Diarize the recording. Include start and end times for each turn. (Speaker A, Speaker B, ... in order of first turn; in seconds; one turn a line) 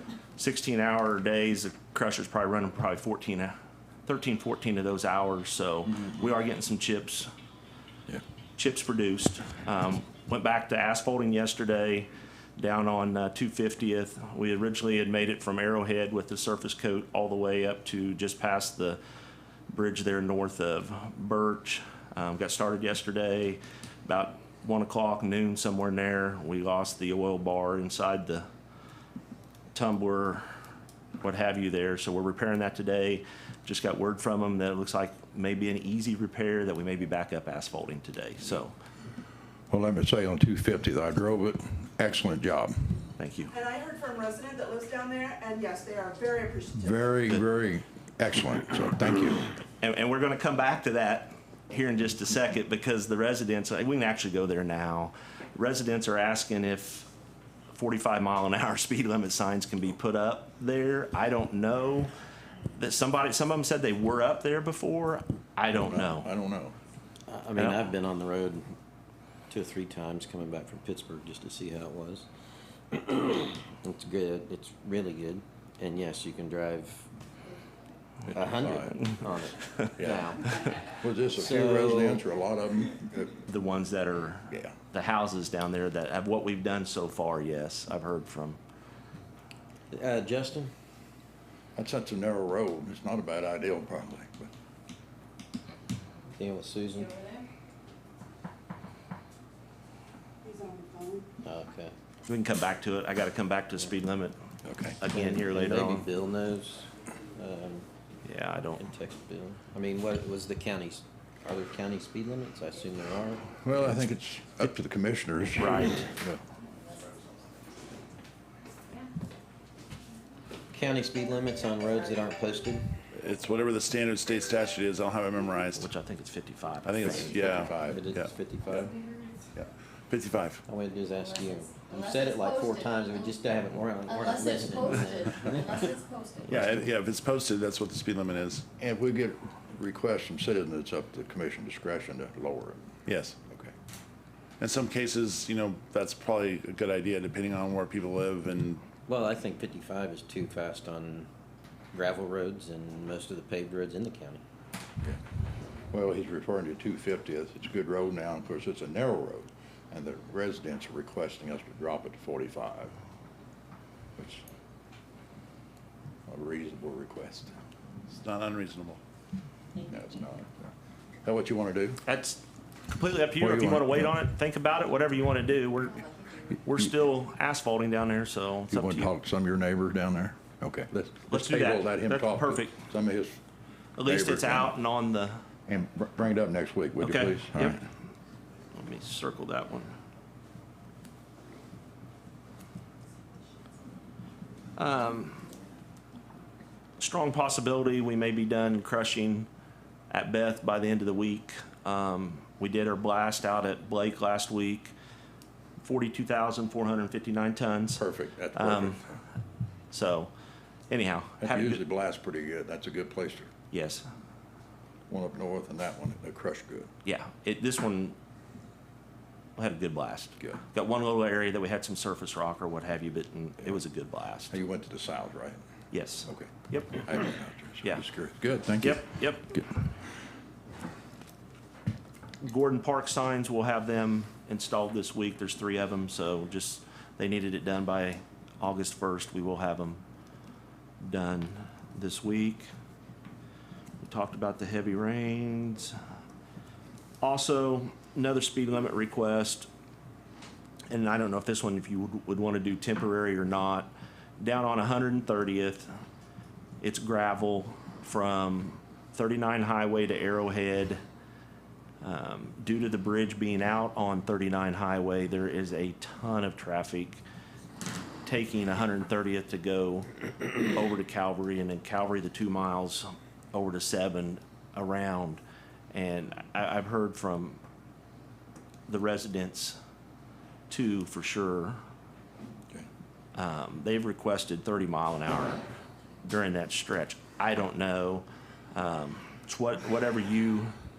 Speaker A: 0.3-3.5
Speaker A: 4.0-7.3
Speaker A: 8.6-19.0
Speaker A: 19.7-28.5
Speaker A: 29.7-30.4
Speaker A: 31.2-38.7
Speaker B: 39.7-43.0
Speaker A: 43.2-43.5
Speaker C: 43.5-47.0
Speaker B: 46.7-49.5
Speaker A: 49.8-57.1
Speaker A: 57.7-62.1
Speaker A: 62.7-66.3
Speaker B: 65.8-66.7
Speaker D: 67.3-68.7
Speaker A: 67.5-67.8
Speaker D: 69.5-72.2
Speaker D: 72.9-77.1
Speaker B: 78.3-79.1
Speaker D: 78.3-80.6
Speaker B: 80.0-80.4
Speaker B: 80.9-83.4
Speaker D: 81.3-82.2
Speaker A: 83.5-88.6
Speaker D: 89.9-90.7
Speaker B: 91.8-94.5
Speaker D: 96.3-97.2
Speaker C: 100.4-101.2
Speaker D: 101.4-101.9
Speaker A: 102.3-104.3
Speaker B: 104.6-105.0
Speaker A: 105.0-106.1
Speaker D: 105.1-107.8
Speaker A: 108.2-108.9
Speaker D: 108.8-113.9
Speaker B: 113.6-116.4
Speaker A: 115.6-116.1
Speaker D: 120.7-122.9
Speaker E: 123.1-125.9
Speaker A: 125.7-127.5
Speaker E: 126.8-128.3
Speaker B: 127.2-128.0
Speaker D: 127.9-129.0
Speaker E: 129.6-130.6
Speaker D: 130.7-136.0
Speaker F: 131.1-133.4
Speaker F: 134.0-136.7
Speaker E: 136.4-138.7
Speaker B: 138.8-142.9
Speaker E: 143.1-143.4
Speaker B: 143.5-143.7
Speaker E: 144.6-148.8
Speaker D: 149.1-151.3
Speaker D: 151.9-154.4
Speaker B: 155.9-162.9
Speaker B: 164.2-164.4
Speaker B: 166.3-167.5
Speaker E: 168.1-169.0
Speaker B: 169.8-170.7
Speaker B: 171.2-172.0
Speaker A: 172.0-176.1
Speaker B: 173.4-174.1
Speaker A: 176.6-179.1
Speaker B: 178.7-183.4
Speaker A: 181.3-182.8
Speaker A: 184.0-185.4
Speaker B: 184.0-184.7
Speaker B: 185.7-187.8
Speaker A: 187.0-187.8
Speaker A: 188.7-189.9
Speaker A: 194.8-195.5
Speaker A: 197.0-199.5
Speaker A: 200.1-204.9
Speaker A: 205.8-208.0
Speaker B: 208.0-209.2
Speaker A: 208.5-209.0
Speaker A: 209.9-210.3
Speaker A: 210.9-211.8
Speaker B: 211.4-213.5
Speaker A: 213.7-214.0
Speaker B: 215.1-216.9
Speaker A: 217.0-218.2
Speaker A: 219.6-224.5
Speaker B: 224.5-225.6
Speaker A: 225.9-227.1
Speaker B: 226.3-229.6
Speaker A: 228.8-229.6
Speaker A: 232.4-240.0
Speaker A: 241.0-242.7
Speaker A: 244.0-246.0
Speaker A: 247.2-249.7
Speaker A: 250.9-255.9
Speaker A: 256.8-261.0
Speaker A: 262.0-267.2
Speaker A: 268.2-275.4
Speaker A: 275.9-277.6
Speaker A: 278.9-279.8
Speaker A: 280.7-281.8
Speaker A: 283.3-285.6
Speaker A: 286.2-290.7